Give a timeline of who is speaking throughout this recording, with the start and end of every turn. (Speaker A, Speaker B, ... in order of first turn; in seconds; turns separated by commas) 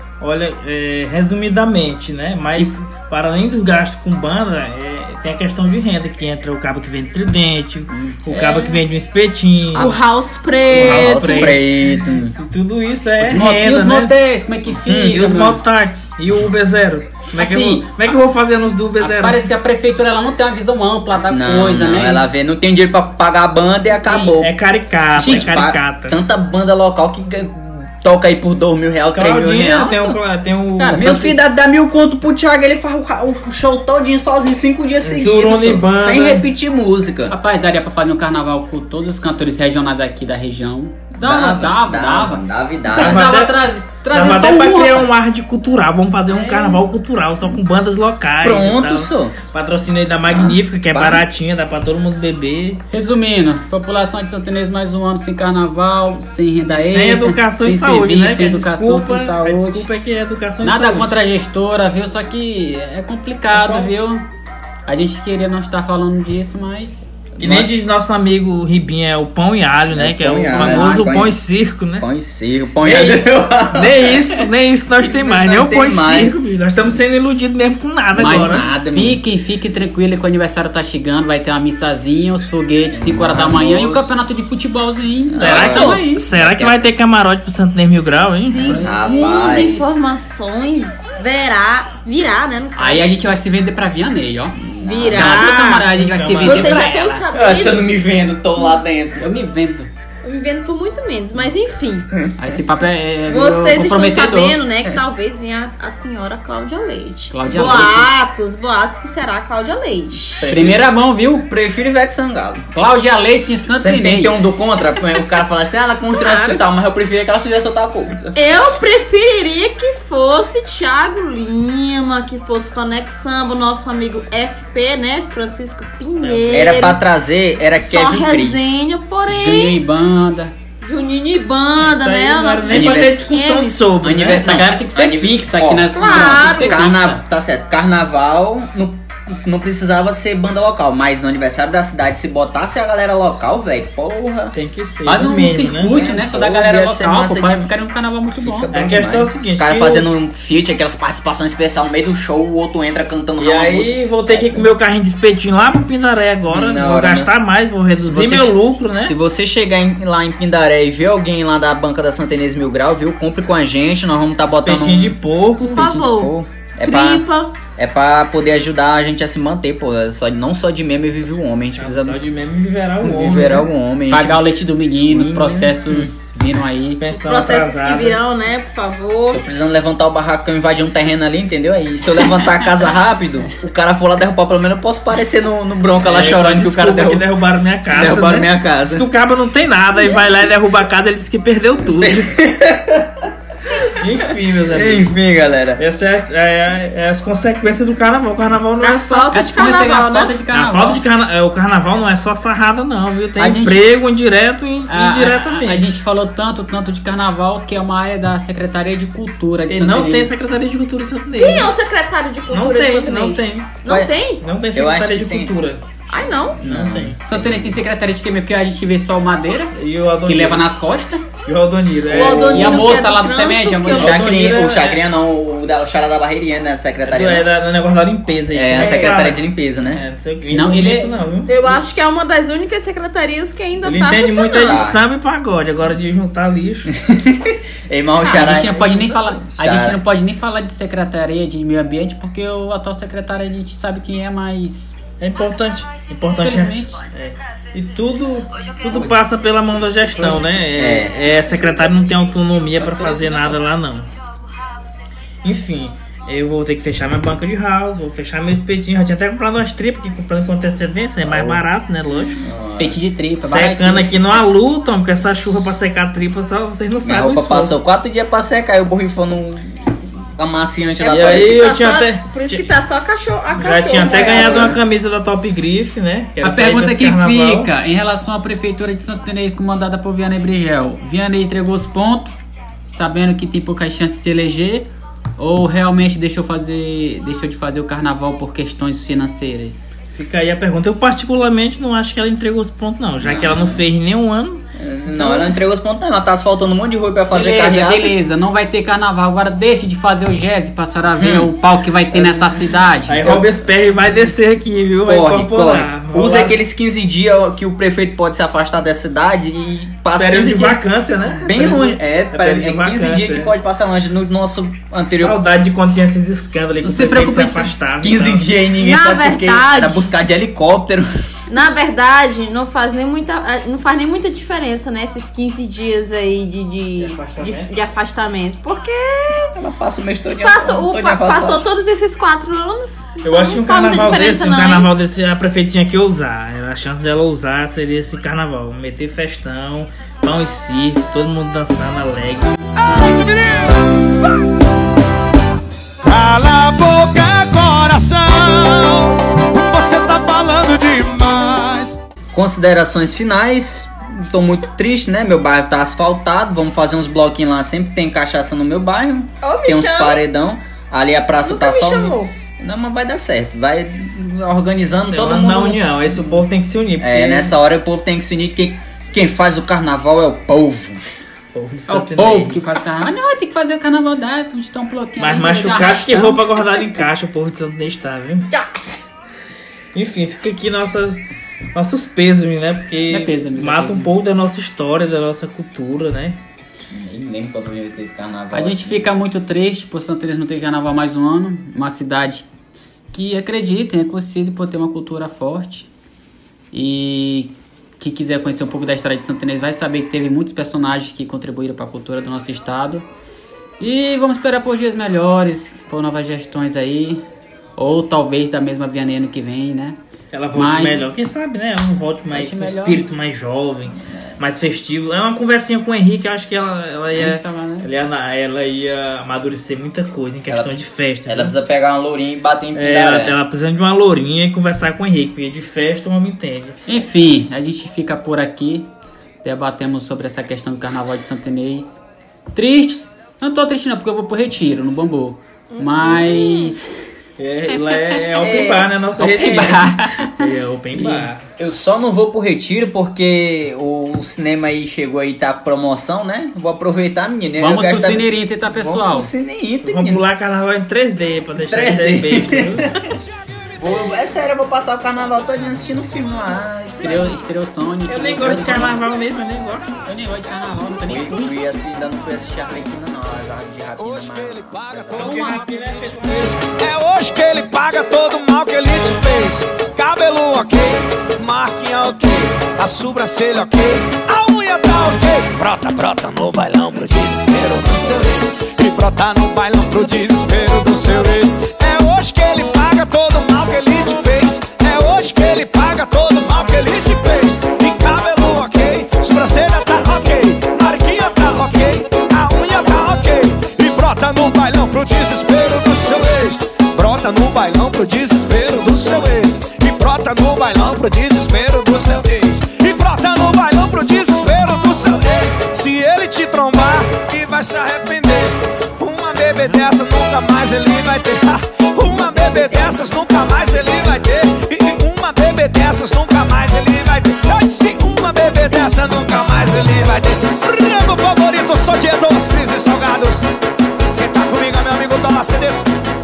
Speaker A: 0.2-9.9, Speaker B: 7.9-8.2, Speaker C: 8.3-8.7, Speaker C: 9.8-11.6, Speaker B: 10.7-12.3, Speaker A: 10.7-14.1, Speaker D: 13.2-15.6, Speaker B: 14.8-15.2, Speaker A: 15.0-19.5, Speaker D: 17.4-18.0, Speaker D: 19.0-22.2, Speaker B: 21.3-24.5, Speaker D: 24.0-24.4, Speaker A: 24.4-26.2, Speaker B: 25.1-30.2, Speaker A: 29.1-31.2, Speaker D: 30.8-31.5, Speaker B: 30.9-37.4, Speaker A: 35.0-36.4, Speaker D: 37.3-45.1, Speaker B: 41.1-43.4, Speaker A: 42.9-52.8, Speaker D: 46.3-46.8, Speaker B: 48.4-49.4, Speaker B: 50.3-51.2, Speaker D: 52.9-59.9, Speaker A: 56.7-61.1, Speaker D: 60.6-64.2, Speaker A: 63.5-63.9, Speaker D: 64.9-67.1, Speaker B: 67.4-67.7, Speaker A: 67.4-72.1, Speaker B: 69.9-71.4, Speaker D: 70.5-71.2, Speaker B: 72.0-74.4, Speaker A: 72.8-78.7, Speaker B: 75.0-76.4, Speaker B: 78.2-79.2, Speaker D: 78.2-86.2, Speaker B: 82.9-84.1, Speaker B: 85.3-86.9, Speaker A: 85.4-88.7, Speaker C: 88.5-93.1, Speaker D: 88.6-89.9, Speaker B: 88.6-89.9, Speaker D: 92.8-97.2, Speaker B: 94.5-95.5, Speaker C: 94.8-97.9, Speaker A: 95.9-96.9, Speaker B: 97.3-99.3, Speaker D: 99.2-99.9, Speaker C: 100.2-102.1, Speaker D: 102.4-104.6, Speaker C: 103.2-110.5, Speaker D: 107.3-108.1, Speaker B: 110.4-110.9, Speaker D: 110.5-111.5, Speaker B: 111.4-112.7, Speaker D: 112.7-114.4, Speaker B: 113.7-118.4, Speaker C: 116.2-116.6, Speaker C: 118.3-127.0, Speaker A: 126.2-127.0, Speaker B: 126.5-128.8, Speaker C: 127.8-129.8, Speaker D: 129.3-130.5, Speaker C: 130.8-133.9, Speaker A: 131.8-134.6, Speaker B: 132.7-133.3, Speaker B: 134.0-144.5, Speaker D: 134.3-137.2, Speaker C: 135.9-136.8, Speaker A: 144.5-145.9, Speaker D: 145.0-148.7, Speaker B: 145.9-147.7, Speaker B: 148.3-154.7, Speaker A: 148.7-150.1, Speaker A: 153.4-159.1, Speaker B: 156.5-157.3, Speaker B: 158.0-172.2, Speaker A: 164.5-165.9, Speaker C: 165.6-167.6, Speaker A: 171.8-173.7, Speaker B: 173.0-174.5, Speaker D: 174.1-177.0, Speaker B: 175.1-176.1, Speaker A: 177.0-178.2, Speaker C: 177.2-179.4, Speaker B: 179.3-187.2, Speaker A: 186.0-192.4, Speaker B: 187.9-189.1, Speaker B: 192.0-193.3, Speaker A: 193.8-195.1, Speaker B: 194.6-195.8, Speaker A: 195.8-199.3, Speaker C: 198.8-200.3, Speaker D: 199.3-201.0, Speaker A: 200.5-206.0, Speaker D: 203.4-203.9, Speaker D: 204.9-210.3, Speaker A: 209.7-211.7, Speaker C: 211.4-214.4, Speaker A: 212.5-213.8, Speaker B: 213.9-214.1, Speaker A: 214.4-216.0, Speaker B: 214.7-215.5, Speaker C: 216.1-216.6, Speaker B: 216.6-217.8, Speaker A: 216.6-217.2, Speaker D: 217.2-219.8, Speaker A: 219.8-220.6, Speaker D: 220.2-221.2, Speaker A: 221.4-223.0, Speaker C: 222.1-224.2, Speaker D: 222.4-224.3, Speaker A: 223.9-225.0, Speaker B: 223.9-227.5, Speaker A: 227.0-231.5, Speaker B: 228.5-230.0, Speaker D: 230.5-231.2, Speaker C: 231.5-234.9, Speaker A: 233.8-236.9, Speaker B: 234.6-235.0, Speaker B: 236.9-240.0, Speaker D: 238.2-244.9, Speaker A: 245.2-254.1, Speaker D: 246.4-247.1, Speaker B: 250.7-251.3, Speaker D: 252.7-253.6, Speaker A: 255.4-262.4, Speaker B: 261.2-261.6, Speaker B: 262.4-263.0, Speaker D: 262.7-264.4, Speaker A: 263.4-267.8, Speaker B: 267.0-271.7, Speaker C: 271.0-274.7, Speaker A: 271.1-272.6, Speaker A: 273.5-277.7, Speaker B: 274.1-274.8, Speaker D: 276.4-282.3, Speaker D: 282.9-289.9, Speaker A: 290.1-294.6, Speaker B: 293.2-293.9, Speaker B: 294.8-298.1, Speaker D: 297.3-303.5, Speaker B: 301.1-301.5, Speaker A: 302.1-306.6, Speaker B: 305.1-310.8, Speaker A: 310.1-313.5, Speaker B: 311.4-315.4, Speaker A: 315.1-318.5, Speaker D: 316.8-317.7, Speaker B: 318.0-321.1, Speaker C: 318.8-320.1, Speaker C: 321.5-329.6, Speaker A: 327.0-327.7, Speaker B: 329.4-331.6, Speaker C: 330.4-334.9, Speaker A: 333.2-342.5, Speaker E: 342.8-344.3, Speaker E: 346.0-351.9, Speaker B: 352.3-366.0, Speaker C: 359.4-360.2, Speaker C: 361.4-362.3, Speaker A: 365.1-367.5, Speaker B: 367.0-371.0, Speaker A: 371.5-372.6, Speaker D: 371.9-377.0, Speaker A: 375.2-378.5, Speaker A: 379.9-381.2, Speaker A: 381.7-386.4, Speaker D: 383.1-384.1, Speaker B: 386.9-389.1, Speaker D: 388.5-392.5, Speaker D: 393.1-395.9, Speaker D: 396.7-403.1, Speaker D: 403.8-407.2, Speaker D: 407.8-410.0, Speaker A: 410.3-421.6, Speaker D: 410.5-411.1, Speaker D: 412.3-413.1, Speaker D: 417.1-417.9, Speaker B: 420.5-423.4, Speaker A: 422.7-426.8, Speaker D: 426.9-428.9, Speaker D: 429.4-432.0, Speaker D: 432.5-436.9, Speaker C: 435.7-436.8, Speaker A: 437.4-441.5, Speaker C: 438.1-438.9, Speaker D: 439.2-441.3, Speaker B: 441.6-450.3, Speaker D: 447.6-449.3, Speaker A: 449.8-452.9, Speaker B: 451.6-453.1, Speaker B: 453.8-457.4, Speaker D: 457.0-459.1, Speaker A: 458.1-459.9, Speaker B: 458.2-459.0, Speaker D: 460.1-461.8, Speaker B: 461.1-465.4, Speaker E: 464.0-523.4, Speaker A: 465.1-466.6, Speaker E: 524.1-525.9